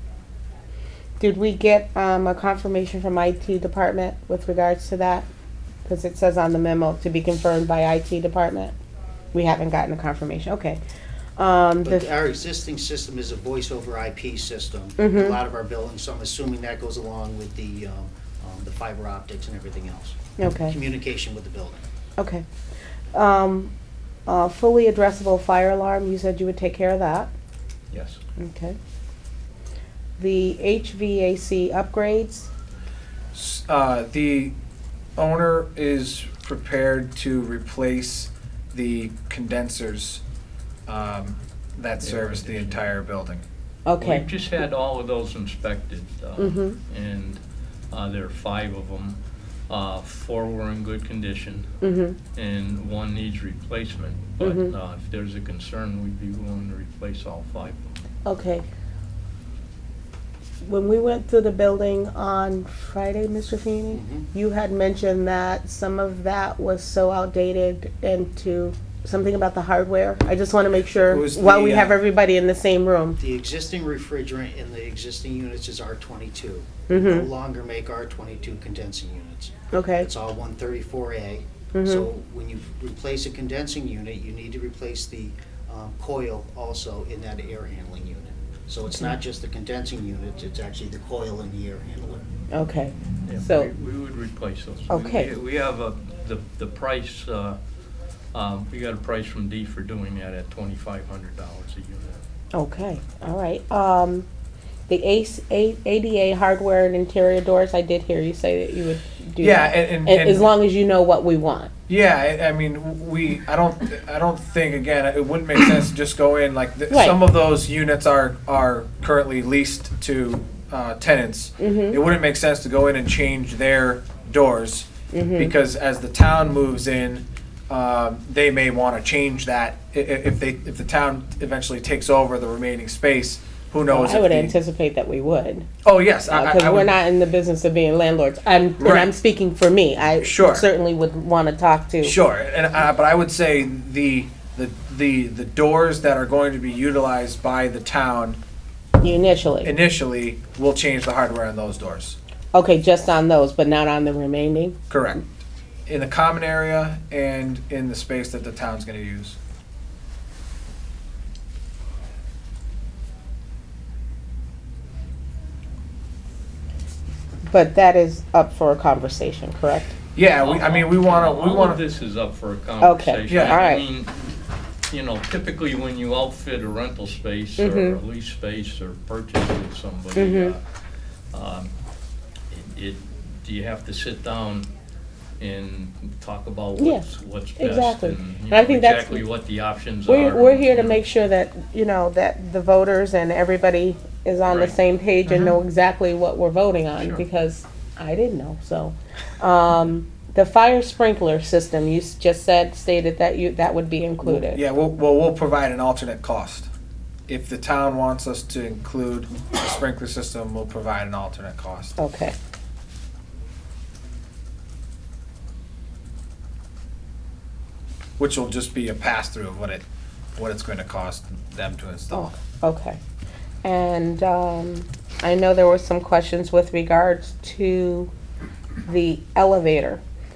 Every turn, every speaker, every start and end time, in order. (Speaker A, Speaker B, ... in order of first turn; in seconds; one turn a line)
Speaker A: 1.2-5.3
Speaker A: 5.8-8.7
Speaker A: 9.3-10.8
Speaker A: 11.4-12.1
Speaker B: 11.8-21.8
Speaker A: 15.0-15.4
Speaker A: 20.4-20.8
Speaker A: 22.2-22.4
Speaker A: 23.1-23.7
Speaker A: 24.3-27.3
Speaker C: 27.9-28.2
Speaker A: 28.4-28.8
Speaker A: 30.2-32.5
Speaker D: 33.3-34.5
Speaker D: 35.2-40.2
Speaker D: 40.9-43.4
Speaker C: 42.0-42.9
Speaker A: 43.9-44.2
Speaker C: 44.0-51.7
Speaker A: 46.4-46.8
Speaker A: 51.8-52.2
Speaker C: 52.3-57.9
Speaker A: 54.4-54.7
Speaker A: 58.2-58.6
Speaker A: 60.6-73.2
Speaker B: 63.9-64.3
Speaker D: 71.1-72.0
Speaker B: 73.2-92.2
Speaker A: 76.9-77.3
Speaker A: 79.7-80.1
Speaker A: 81.7-82.1
Speaker A: 92.5-93.7
Speaker C: 93.2-97.6
Speaker A: 94.9-95.3
Speaker C: 98.3-102.2
Speaker A: 102.5-104.3
Speaker A: 104.9-111.7
Speaker D: 109.4-110.5
Speaker D: 111.9-134.6
Speaker A: 116.9-117.2
Speaker A: 121.6-122.0
Speaker A: 125.1-125.5
Speaker A: 133.9-135.7
Speaker D: 135.8-136.9
Speaker A: 136.3-142.1
Speaker D: 138.8-139.1
Speaker D: 140.2-140.7
Speaker D: 142.0-148.4
Speaker A: 149.0-149.7
Speaker D: 149.6-152.2
Speaker A: 152.5-154.8
Speaker D: 154.9-155.3
Speaker D: 155.9-159.4
Speaker A: 167.5-169.9
Speaker D: 170.1-171.8
Speaker C: 170.4-174.4
Speaker A: 172.8-173.8
Speaker D: 173.3-173.6
Speaker C: 174.9-180.6
Speaker A: 177.6-178.0
Speaker A: 180.1-180.5
Speaker C: 181.3-181.7
Speaker C: 182.5-184.7
Speaker C: 185.4-191.0
Speaker A: 186.8-189.2
Speaker A: 190.1-204.6
Speaker C: 194.5-194.8
Speaker C: 196.9-197.2
Speaker D: 204.2-206.7
Speaker D: 207.3-211.9
Speaker A: 212.0-212.3
Speaker D: 218.2-219.8
Speaker D: 220.3-222.3
Speaker A: 222.1-223.0
Speaker A: 223.6-228.1
Speaker A: 228.8-230.0